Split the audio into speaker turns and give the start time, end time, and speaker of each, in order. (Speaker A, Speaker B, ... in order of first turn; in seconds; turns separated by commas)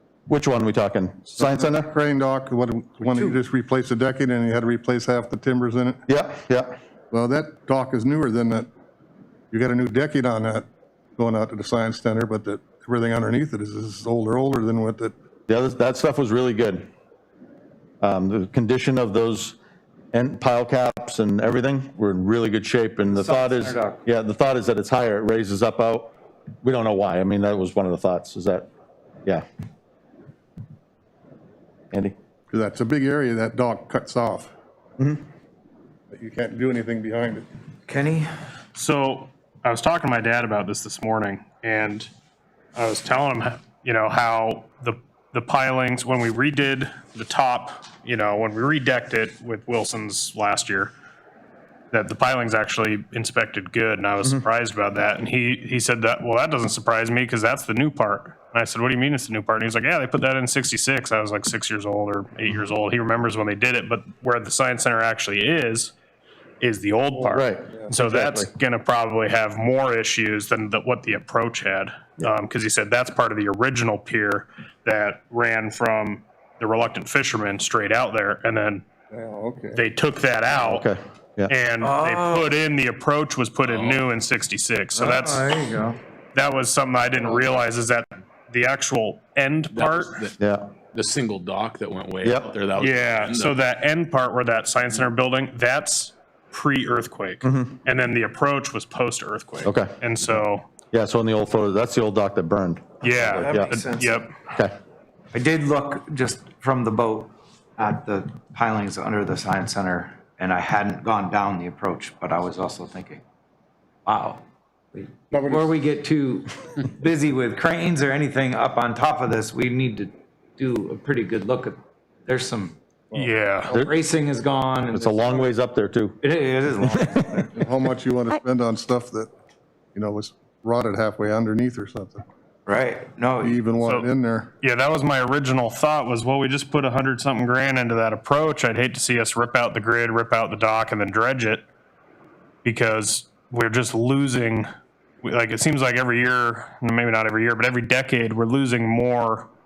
Speaker A: 0.3-1.9, Speaker B: 1.4-6.0, Speaker C: 3.0-3.4, Speaker A: 6.1-6.7, Speaker B: 7.1-8.7, Speaker B: 9.5-10.7, Speaker B: 11.2-15.1, Speaker A: 15.5-16.9, Speaker A: 18.0-19.6, Speaker A: 20.1-28.7, Speaker C: 23.1-24.0, Speaker B: 32.5-34.5, Speaker B: 36.1-37.4, Speaker C: 37.9-38.3, Speaker D: 38.7-42.1, Speaker D: 42.7-50.9, Speaker D: 51.9-65.9, Speaker D: 66.6-78.8, Speaker A: 67.3-68.5, Speaker B: 79.1-79.8, Speaker D: 79.7-80.9, Speaker A: 80.6-81.5, Speaker D: 81.5-85.5, Speaker C: 81.8-82.5, Speaker E: 83.6-84.0, Speaker C: 84.9-86.0, Speaker D: 86.3-90.2, Speaker E: 89.7-90.3, Speaker A: 90.4-90.7, Speaker E: 90.9-93.6, Speaker A: 92.2-92.5, Speaker D: 92.8-100.7, Speaker A: 97.4-97.8, Speaker A: 99.6-103.7, Speaker C: 103.0-104.3, Speaker D: 103.0-104.3, Speaker C: 105.3-113.2, Speaker C: 114.0-114.4, Speaker C: 114.9-122.8, Speaker B: 115.3-115.7, Speaker B: 123.1-123.4, Speaker D: 123.1-123.7, Speaker C: 123.7-125.5, Speaker A: 124.9-126.2, Speaker C: 126.2-127.5, Speaker B: 127.5-129.3, Speaker B: 129.9-132.2, Speaker C: 132.7-133.6, Speaker B: 133.4-134.5, Speaker D: 133.8-134.1, Speaker D: 134.6-141.6, Speaker D: 142.6-144.7, Speaker D: 145.2-149.5